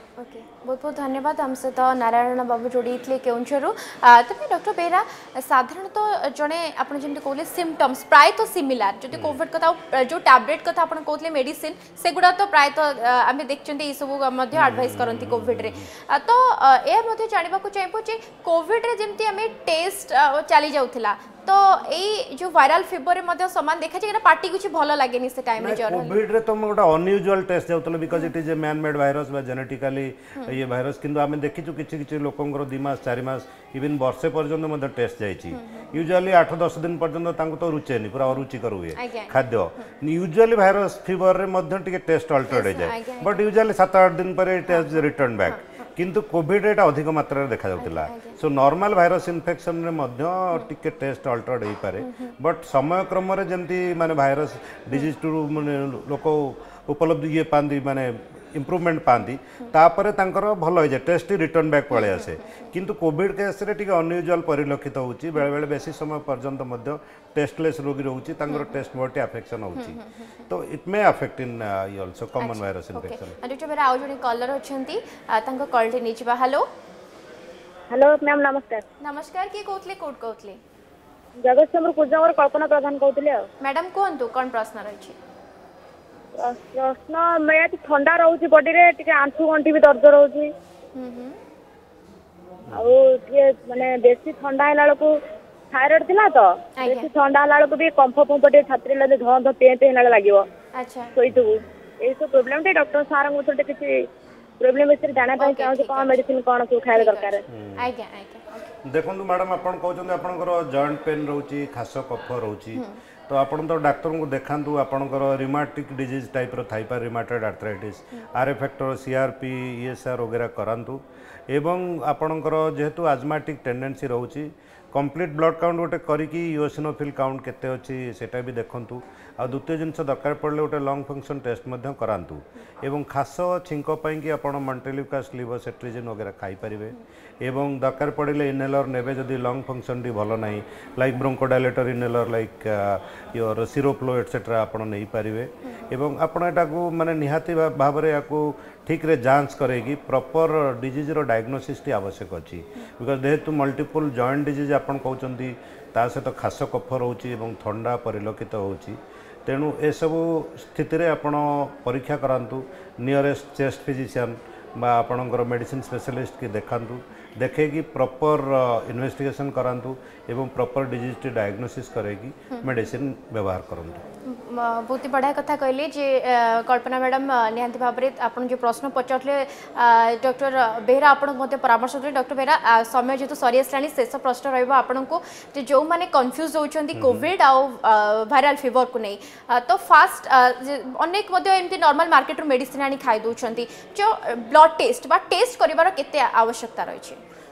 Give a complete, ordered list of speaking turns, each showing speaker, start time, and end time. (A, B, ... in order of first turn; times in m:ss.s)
0:00.2-0:26.2 A
0:09.1-0:09.4 B
0:14.5-0:15.9 B
0:25.6-1:13.4 B
0:35.5-0:36.0 A
0:38.9-0:39.9 A
0:42.5-0:43.4 A
0:44.7-0:45.9 A
0:47.8-0:48.4 A
0:52.0-0:52.4 A
1:02.0-1:02.7 A
1:09.8-1:10.3 A
1:12.4-1:16.6 A
1:17.9-1:18.8 C
1:19.0-1:20.6 A
1:21.4-1:23.4 C
1:23.6-1:25.2 A
1:26.4-1:30.5 C
1:30.9-1:31.4 A
1:32.7-1:35.1 C
1:35.7-1:40.4 C
1:36.8-1:37.1 A
1:40.8-1:41.1 A
1:41.2-1:44.0 C
1:41.3-1:41.6 B
1:44.6-1:47.4 C
1:45.4-1:46.2 A
1:46.9-1:48.7 A
1:47.5-1:47.9 B
1:48.8-2:54.0 B
2:25.6-2:25.9 A
2:52.5-2:52.9 A
2:54.2-3:17.2 A
3:06.9-3:07.3 B